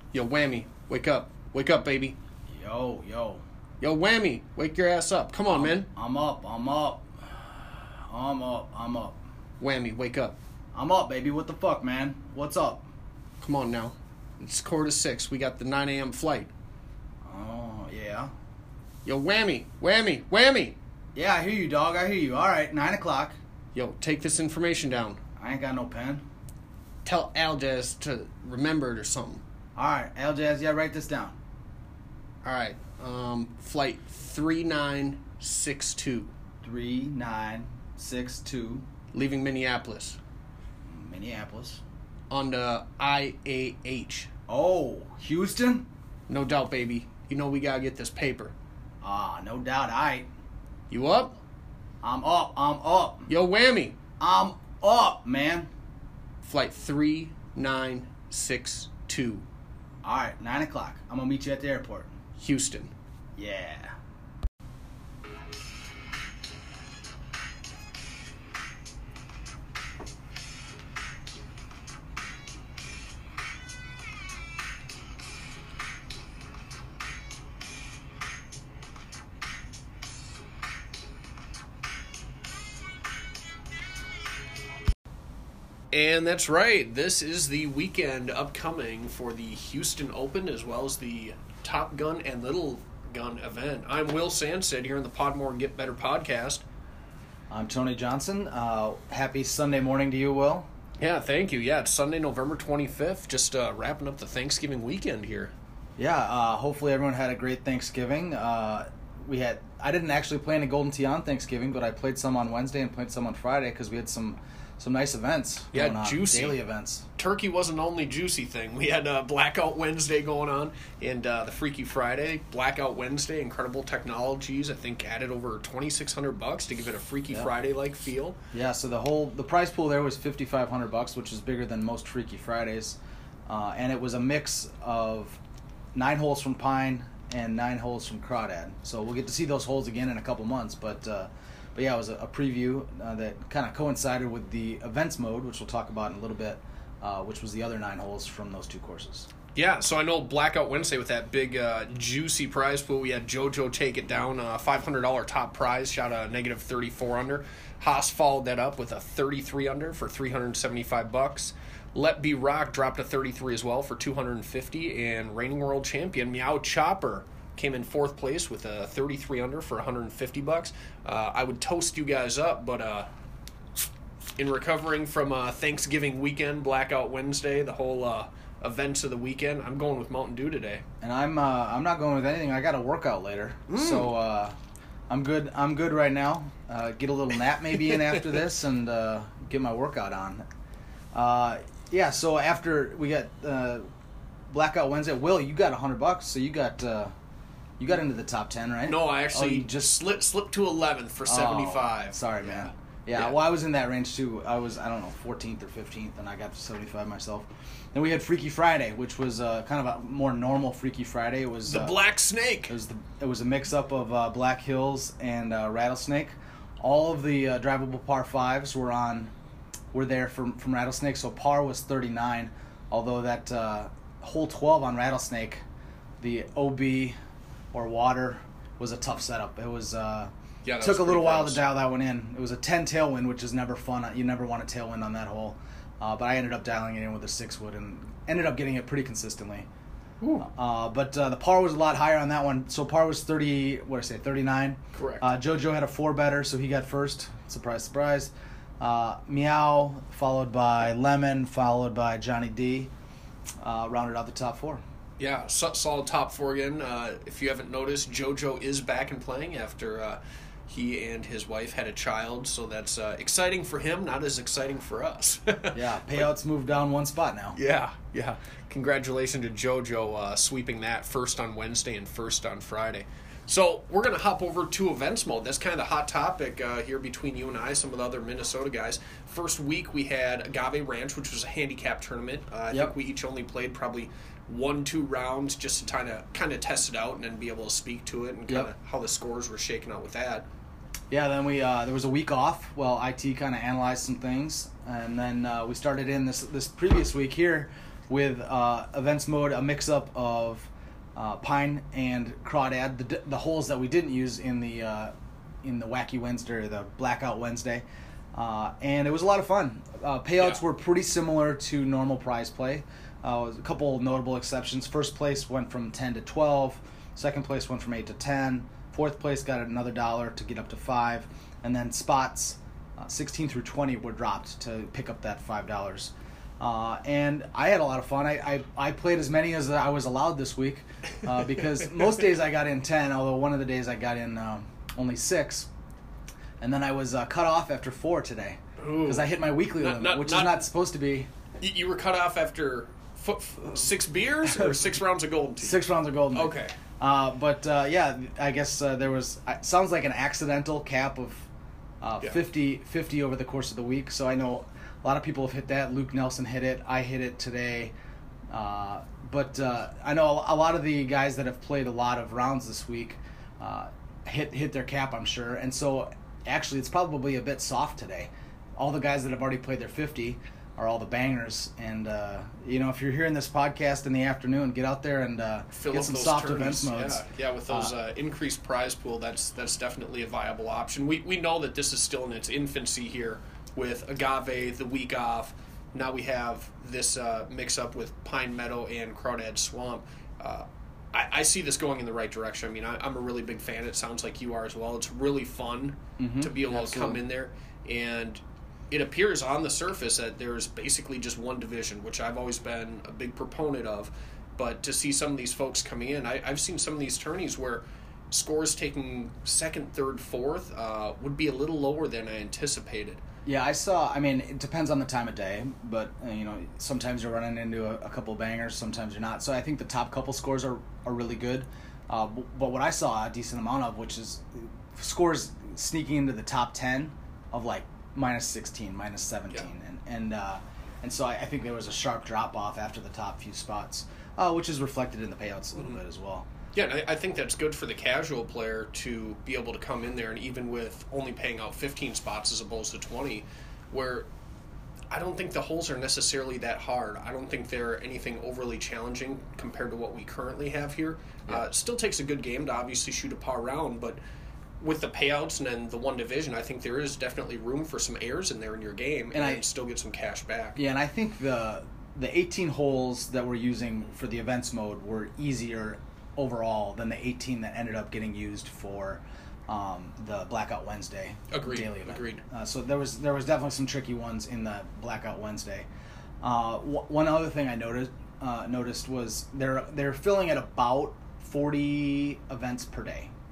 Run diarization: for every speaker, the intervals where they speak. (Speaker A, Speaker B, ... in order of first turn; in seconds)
Speaker A: 0.1-2.2, 3.8-5.9, 9.6-10.4, 13.4-16.5, 19.0-20.8, 23.7-25.2, 27.0-29.4, 32.4-36.3, 39.1-40.2, 42.3-44.3, 46.3-48.5, 50.9-51.4, 53.3-54.0, 56.4-59.5, 62.4-62.9, 85.9-96.6, 101.0-105.5, 115.7-116.6, 117.2-128.4, 149.5-173.1, 174.4-180.8, 183.7-184.1, 198.8-203.3, 211.7-212.7, 230.6-231.6, 240.2-240.4, 244.9-245.3, 255.2-266.2, 267.5-290.5, 338.8-340.7, 341.6-346.7, 375.7-413.2, 436.7-444.3, 445.1-454.2, 454.8-460.8, 471.5-472.4
Speaker B: 2.5-3.4, 5.5-9.2, 10.7-12.9, 17.2-18.3, 21.1-23.4, 25.4-26.2, 29.8-31.4, 36.6-38.9, 40.9-41.8, 44.5-45.9, 49.0-50.3, 52.0-53.3, 54.2-55.7, 60.0-62.1, 63.4-63.9, 97.5-100.7, 106.0-117.0, 128.5-135.4, 135.9-149.3, 181.0-184.6, 185.1-190.4, 191.1-193.8, 194.5-197.1, 197.8-199.9, 201.2-212.0, 212.7-219.3, 219.9-225.6, 226.2-227.2, 227.7-239.7, 240.4-252.9, 253.6-254.8, 265.7-267.6, 291.1-305.1, 305.6-335.7, 336.6-341.3, 345.6-351.5, 352.0-357.9, 358.5-377.9, 396.2-397.2, 413.4-436.5, 459.3-459.6, 460.8-475.9, 476.4-483.3